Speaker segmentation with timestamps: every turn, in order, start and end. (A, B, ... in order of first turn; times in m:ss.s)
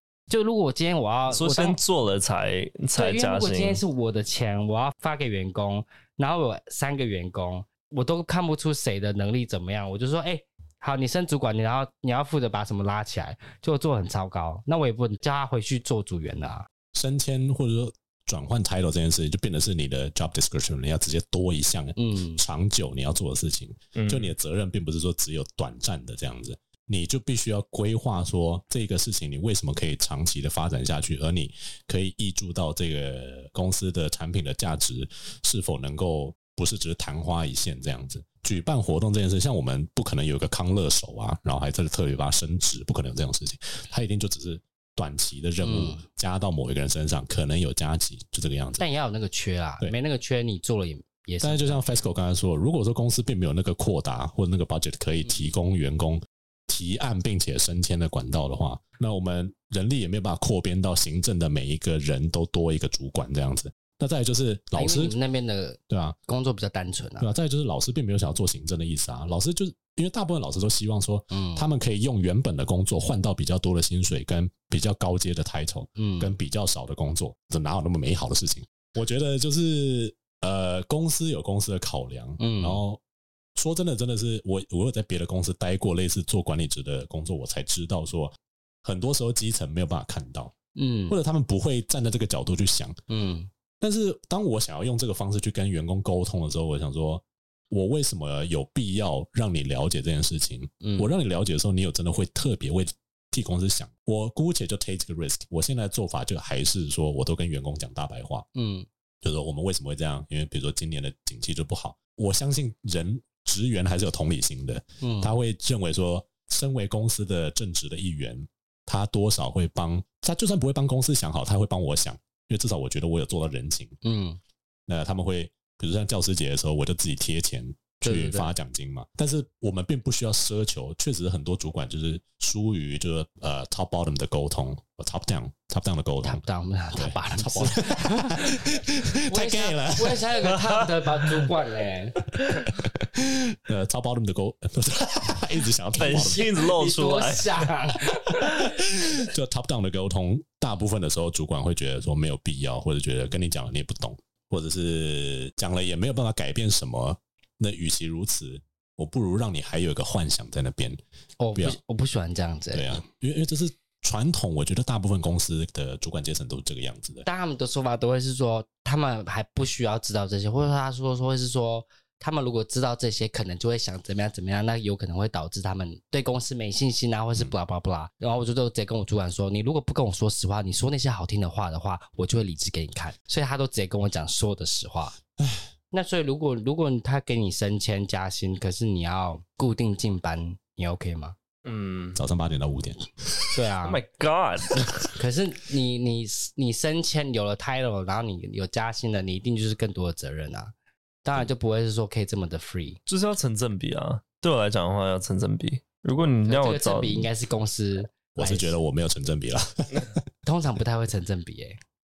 0:00.3-0:01.8 A
0:01.3-0:03.8 B
0:02.9-0:16.7 A
0:16.9-0:48.8 C
0:22.0-0:22.4 A
0:23.9-0:24.3 B
0:45.6-0:46.0 A
0:48.8-0:51.8 A
0:51.4-1:05.1 C
0:55.2-0:55.5 A
1:04.7-1:07.3 A
1:05.9-1:06.2 C
1:07.2-1:23.0 C
1:11.3-1:11.6 A
1:16.0-1:16.4 A
1:22.4-1:22.8 A
1:23.6-1:30.5 C
1:30.8-1:31.2 A
1:31.1-1:33.0 C
1:33.1-1:33.5 A
1:33.8-1:48.4 C
1:40.8-1:41.1 A
1:48.5-1:48.9 A
1:49.2-2:04.0 C
1:55.0-1:55.3 A
2:04.0-2:04.4 A
2:04.9-2:16.4 C
2:08.0-2:08.5 A
2:16.2-2:18.8 A
2:16.9-2:20.6 C
2:19.3-2:22.2 A
2:22.7-2:26.5 C
2:26.0-2:27.6 B
2:26.2-2:28.8 A
2:28.1-2:41.0 C
2:41.4-2:42.9 A
2:42.7-2:47.2 C
2:47.2-3:05.2 A
3:05.4-3:05.7 C
3:05.9-3:11.3 A
3:11.6-3:12.2 B
3:12.2-3:13.6 C
3:13.5-3:14.0 A
3:13.8-3:15.0 B
3:15.1-3:20.7 A
3:21.2-3:23.0 A
3:23.1-3:27.3 B
3:26.4-3:28.7 A
3:28.3-3:30.2 C
3:30.4-3:31.8 A